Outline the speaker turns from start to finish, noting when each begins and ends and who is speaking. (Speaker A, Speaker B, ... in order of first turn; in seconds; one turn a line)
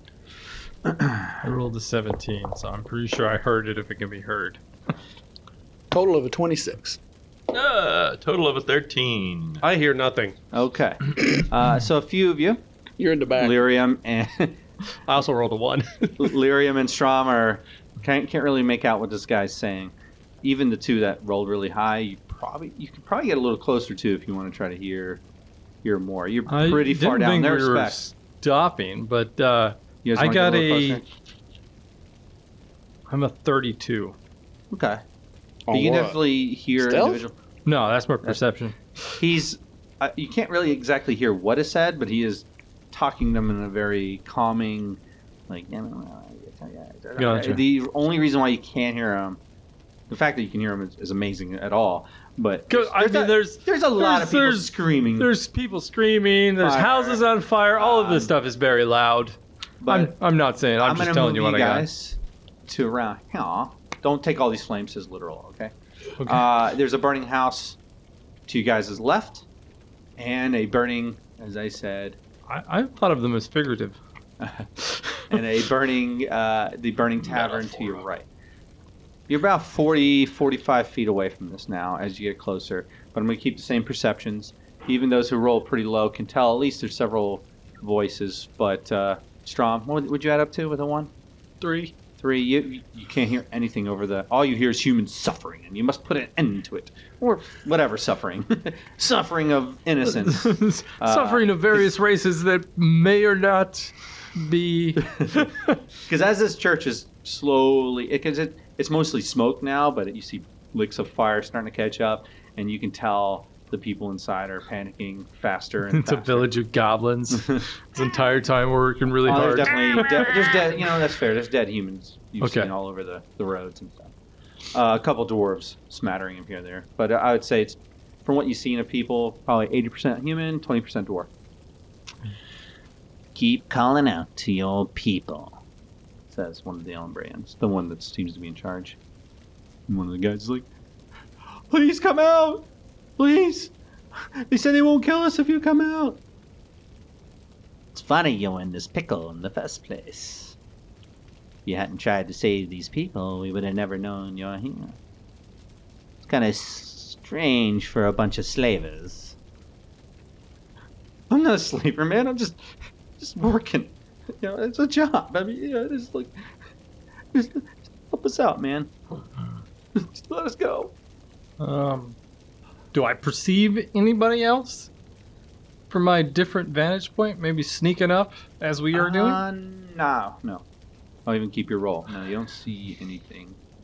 Speaker A: 0.8-1.4
Speaker B: 1.4-4.6
Speaker C: 5.9-7.0
Speaker D: 7.5-9.6
Speaker E: 9.6-10.3
Speaker A: 10.5-12.6
Speaker C: 13.0-13.6
Speaker A: 13.3-14.6
Speaker E: 15.1-16.3
Speaker A: 16.2-25.2
Speaker A: 25.8-28.0
Speaker B: 26.5-31.0
Speaker A: 30.0-31.0
Speaker B: 33.1-34.1
Speaker A: 34.7-35.0
Speaker C: 35.7-36.2
Speaker A: 35.7-37.3
Speaker C: 36.8-37.2
Speaker B: 37.6-38.8
Speaker A: 39.0-49.4
Speaker B: 47.2-47.6
Speaker A: 50.1-55.3
Speaker B: 52.7-61.9
Speaker A: 56.6-57.2
Speaker A: 57.8-58.3
Speaker A: 59.8-60.1
Speaker A: 60.8-67.8
Speaker B: 66.2-66.4
Speaker A: 68.5-69.5
Speaker A: 70.2-72.2
Speaker B: 72.5-74.0
Speaker A: 74.4-78.3
Speaker A: 79.3-91.1
Speaker C: 91.6-91.9
Speaker A: 92.2-101.8
Speaker B: 100.0-105.7
Speaker A: 105.0-105.5
Speaker A: 106.0-116.5
Speaker B: 115.9-120.3
Speaker A: 117.3-117.6
Speaker A: 119.2-124.1
Speaker B: 122.4-122.7
Speaker A: 124.7-131.3
Speaker A: 133.3-135.6
Speaker A: 136.3-139.0
Speaker A: 139.9-140.7
Speaker A: 141.7-146.2
Speaker A: 147.9-150.6
Speaker A: 151.7-155.0
Speaker A: 156.2-159.3
Speaker A: 161.3-162.6
Speaker A: 163.2-166.3
Speaker A: 167.3-168.9
Speaker A: 169.9-170.9
Speaker B: 171.6-172.2
Speaker B: 172.9-174.9
Speaker B: 175.9-179.4
Speaker A: 178.9-180.6
Speaker A: 181.2-183.6